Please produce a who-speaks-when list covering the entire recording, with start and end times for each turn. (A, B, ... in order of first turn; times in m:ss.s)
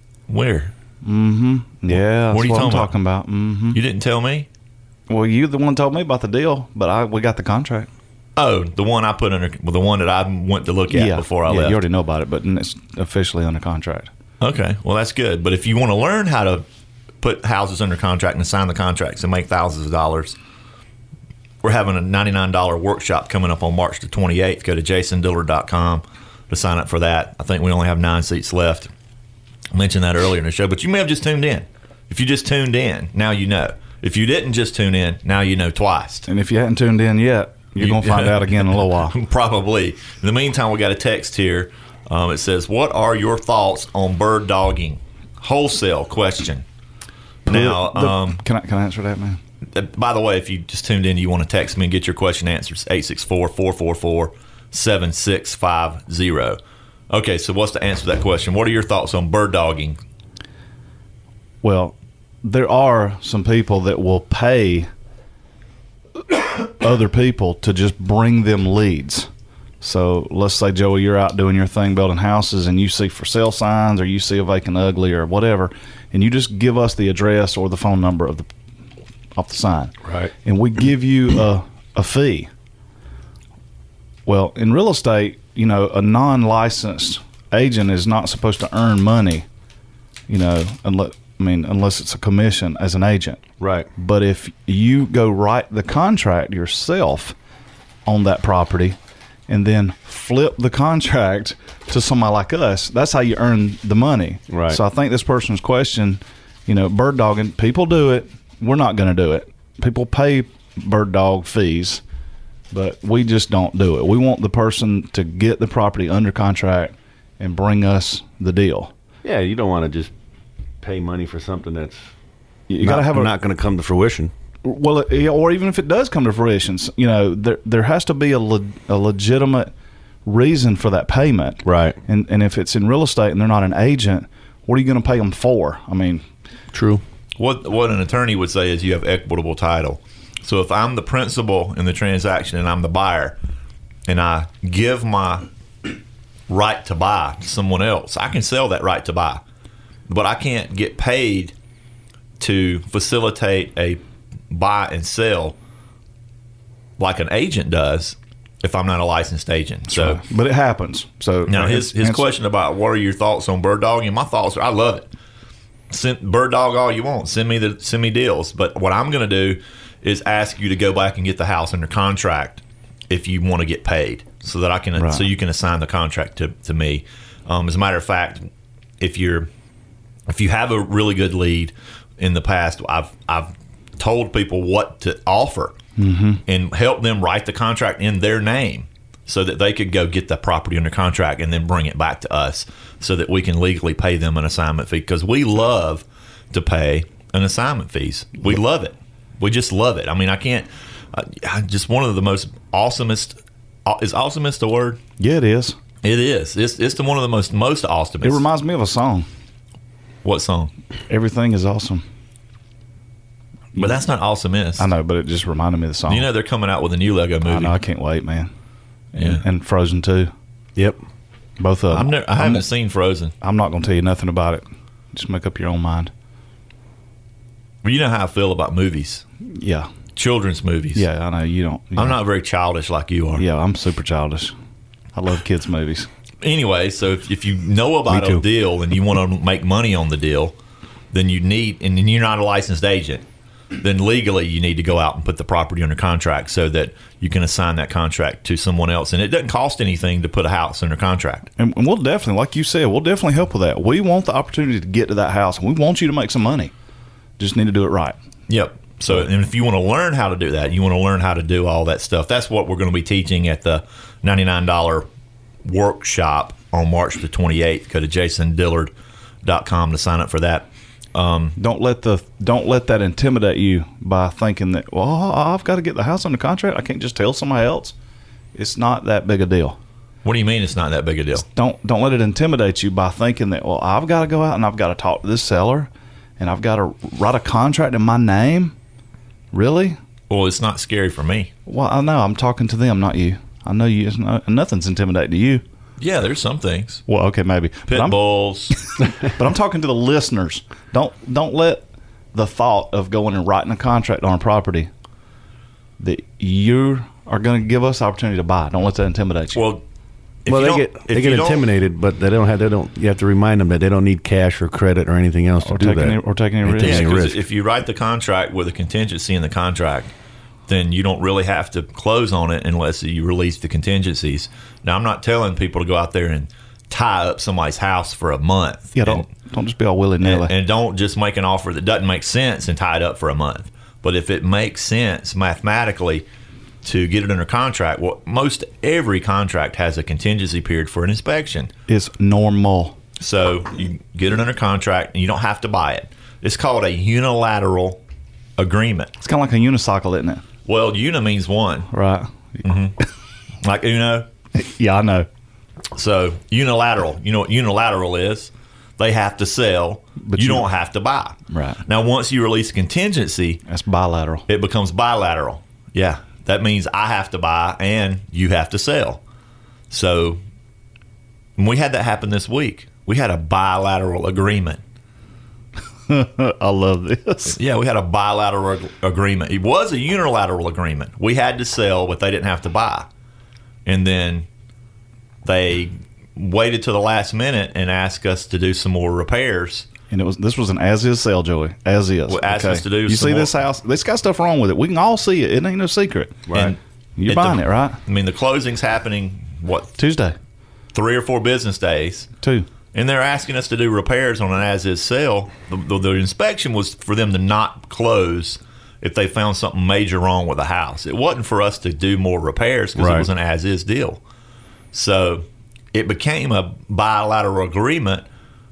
0:00.3-0:00.7 A
0:01.0-0:03.8 B
0:01.9-0:02.9 A
0:03.7-0:04.5 A
0:05.1-0:07.9 B
0:08.4-0:11.8 A
0:10.9-0:14.1 B
0:14.4-0:16.6 A
0:17.2-0:20.4 A
0:21.6-0:28.9 A
0:29.7-0:36.3 A
0:36.3-0:39.2 B
0:37.8-0:46.6 A
0:47.4-0:48.4 A
0:47.4-0:49.4 B
0:49.7-0:56.6 A
0:57.1-1:00.0 A
1:01.6-1:04.9 B
1:06.6-1:09.3 B
1:09.8-1:18.5 B
1:19.3-1:22.5 B
1:20.0-1:20.3 C
1:24.3-1:29.4 B
1:30.3-1:33.4 B
1:33.6-1:33.9 C
1:34.0-1:37.3 B
1:38.0-1:39.0 B
1:39.5-1:52.0 B
1:44.5-1:44.8 C
1:52.7-1:58.9 B
1:59.2-2:00.1 C
2:00.8-2:02.0 C
2:02.7-2:03.3 B
2:02.8-2:04.3 C
2:04.6-2:09.7 B
2:10.2-2:16.2 B
2:11.6-2:12.0 C
2:16.7-2:17.0 C
2:17.4-2:23.4 A
2:24.1-2:26.0 A
2:26.5-2:29.4 A
2:30.1-2:31.5 A
2:32.4-2:35.6 A
2:37.0-2:40.2 A
2:39.9-2:42.3 B
2:41.5-2:45.1 A
2:45.9-2:58.5 A
2:55.0-2:55.2 B
2:59.0-2:59.5 A
3:00.3-3:05.8 A
3:06.0-3:06.4 B
3:06.5-3:25.0 A
3:25.2-3:25.8 B
3:26.0-3:28.4 A
3:28.2-3:29.3 B
3:30.2-3:30.7 A
3:31.1-3:32.0 B
3:33.8-3:34.9 A
3:34.8-3:36.3 B
3:36.1-3:37.7 A
3:37.4-3:38.5 B
3:39.1-3:40.3 B
3:39.2-3:39.4 A
3:41.6-3:42.6 B
3:41.9-3:43.3 A
3:43.4-3:46.1 B
3:47.8-3:49.2 A
3:49.4-3:49.9 B
3:50.1-3:51.0 A
3:50.9-3:52.2 B
3:52.0-3:53.4 A
3:53.4-3:54.5 B
3:55.1-3:56.1 B
3:56.4-4:00.6 A
3:58.1-3:58.4 B
4:01.1-4:03.2 A
4:03.8-4:11.5 A
4:11.6-4:16.7 B
4:17.4-4:18.2 B
4:18.5-4:25.1 A
4:25.6-4:31.6 A
4:31.6-4:37.9 B
4:38.5-4:39.8 B
4:40.2-4:41.4 A
4:41.4-4:48.7 B
4:49.5-4:50.0 B
4:50.3-4:51.5 A
4:51.6-4:55.6 B
4:56.0-4:57.0 A
4:57.1-5:04.9 B
4:57.9-4:58.8 A
5:06.0-5:09.6 B
5:09.5-5:09.8 A
5:10.4-5:11.7 A
5:10.5-5:17.4 C
5:15.6-5:17.1 B
5:16.8-5:20.1 A
5:20.7-5:29.2 A
5:28.9-5:30.5 B
5:30.2-5:36.2 A
5:36.8-5:41.7 A
5:41.9-5:43.0 B
5:43.2-5:48.0 A
5:48.6-5:49.1 A
5:49.2-5:50.4 B
5:50.6-5:51.9 A
5:51.9-5:52.7 B
5:52.6-5:52.9 A
5:53.6-5:54.3 A
5:54.5-5:55.3 B
5:55.9-6:03.6 A
6:00.2-6:00.7 B
6:01.5-6:01.8 B
6:03.6-6:04.4 B
6:04.5-6:09.2 A
6:09.9-6:10.4 A
6:11.6-6:14.8 A
6:16.1-6:17.6 B
6:17.4-6:23.1 A
6:23.8-6:24.5 A
6:25.4-6:29.9 A
6:30.1-6:36.5 B
6:32.3-6:33.5 A
6:36.5-6:36.7 C
6:36.5-6:40.0 A
6:37.2-6:38.0 B
6:40.0-6:40.4 B
6:40.9-6:42.3 A
6:42.4-6:42.7 B
6:42.9-6:54.2 A
6:53.0-6:53.3 C
6:54.9-6:58.2 A